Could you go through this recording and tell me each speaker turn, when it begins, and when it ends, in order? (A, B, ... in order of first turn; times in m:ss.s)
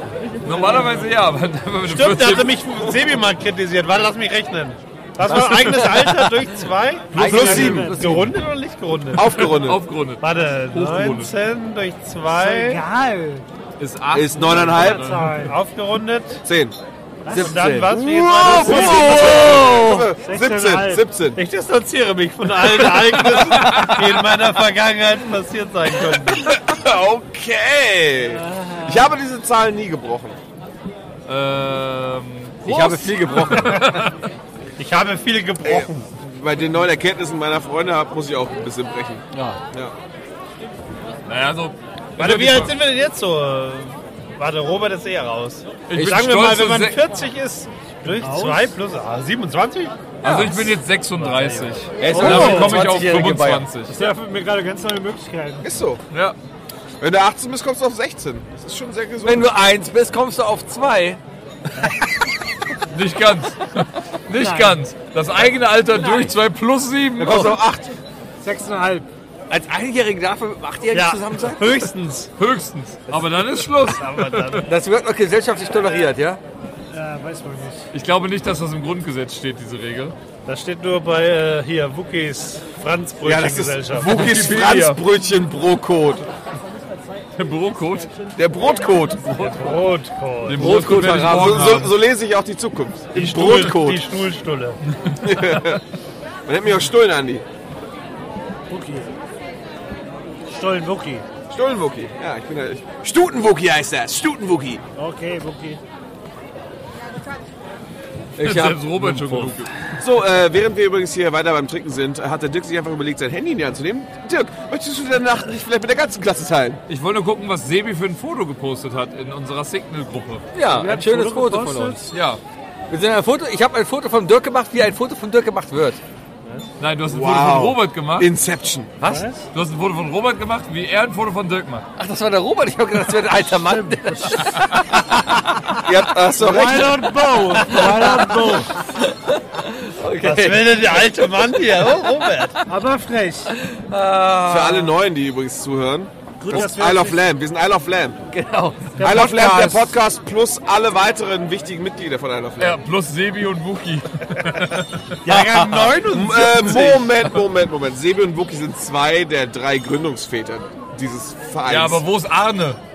0:00.4-0:02.5 A
0:01.9-0:09.4 B
0:05.2-0:06.4 C
0:07.1-0:08.3 C
0:07.2-0:07.9 D
0:07.2-0:08.3 E
0:09.1-0:09.8 D
0:09.2-0:11.3 A
0:10.2-0:12.8 B
0:12.3-0:13.4 E
0:13.8-0:15.5 A
0:14.1-0:15.2 D
0:14.7-0:15.6 E
0:15.3-0:16.4 B
0:16.4-0:16.7 D
0:17.2-0:17.8 E
0:17.3-0:20.1 C
0:17.3-0:19.4 B
0:18.0-0:21.4 D
0:20.2-0:21.0 E
0:21.3-0:26.4 B
0:23.0-0:24.2 A
0:26.4-0:30.4 D
0:31.3-0:34.2 A
0:32.6-0:34.0 C
0:34.8-0:36.0 B
0:35.6-0:39.9 D
0:39.3-0:39.6 C
0:41.2-0:42.8 A
0:42.2-0:51.7 B
0:45.9-0:47.0 A
0:48.1-0:48.7 E
0:50.2-0:54.0 A
0:52.0-0:53.7 C
0:52.1-0:52.9 E
0:53.9-0:55.7 E
0:55.6-0:56.0 D
0:56.1-0:56.4 A
0:57.0-0:59.7 D
0:59.2-1:01.2 C
1:01.8-1:02.1 E
1:02.9-1:07.6 A
1:04.3-1:04.8 E
1:07.2-1:07.9 D
1:07.2-1:07.5 C
1:08.4-1:09.1 E
1:09.5-1:11.9 C
1:10.9-1:12.3 B
1:12.4-1:14.7 A
1:13.1-1:14.7 B
1:14.6-1:16.4 C
1:16.9-1:17.8 E
1:17.9-1:20.1 A
1:20.4-1:24.1 B
1:23.2-1:26.3 D
1:24.0-1:25.0 A
1:27.4-1:28.1 A
1:28.3-1:29.2 D
1:29.2-1:31.9 A
1:29.4-1:30.7 E
1:29.6-1:29.9 B
1:30.6-1:31.6 C
1:30.8-1:34.0 D
1:33.1-1:34.8 B
1:35.0-1:35.8 A
1:35.2-1:35.8 D
1:36.4-1:37.4 D
1:38.7-1:39.1 E
1:40.5-1:41.2 E
1:41.5-1:44.8 D
1:45.0-1:45.8 E
1:48.4-1:49.5 C
1:48.4-1:49.7 A
1:50.0-1:56.8 D
1:56.9-2:00.5 A
2:00.5-2:02.0 C
2:00.6-2:02.1 E
2:02.1-2:02.4 A
2:02.9-2:06.0 C
2:06.8-2:08.3 A
2:07.1-2:08.9 D
2:09.0-2:09.3 C
2:09.0-2:09.4 E
2:09.5-2:11.9 A
2:12.0-2:15.6 C
2:13.6-2:14.8 E
2:15.8-2:17.1 D
2:16.3-2:18.9 E
2:17.6-2:22.6 C
2:20.2-2:22.6 B
2:22.7-2:23.5 E
2:23.5-2:24.9 C
2:24.4-2:28.2 D
2:26.4-2:27.2 E
2:28.3-2:29.1 C
2:29.0-2:29.9 E
2:29.0-2:32.8 D
2:32.6-2:35.0 A
2:35.2-2:36.1 C
2:35.2-2:36.9 E
2:35.3-2:36.2 B
2:36.0-2:42.0 D
2:41.6-2:42.8 A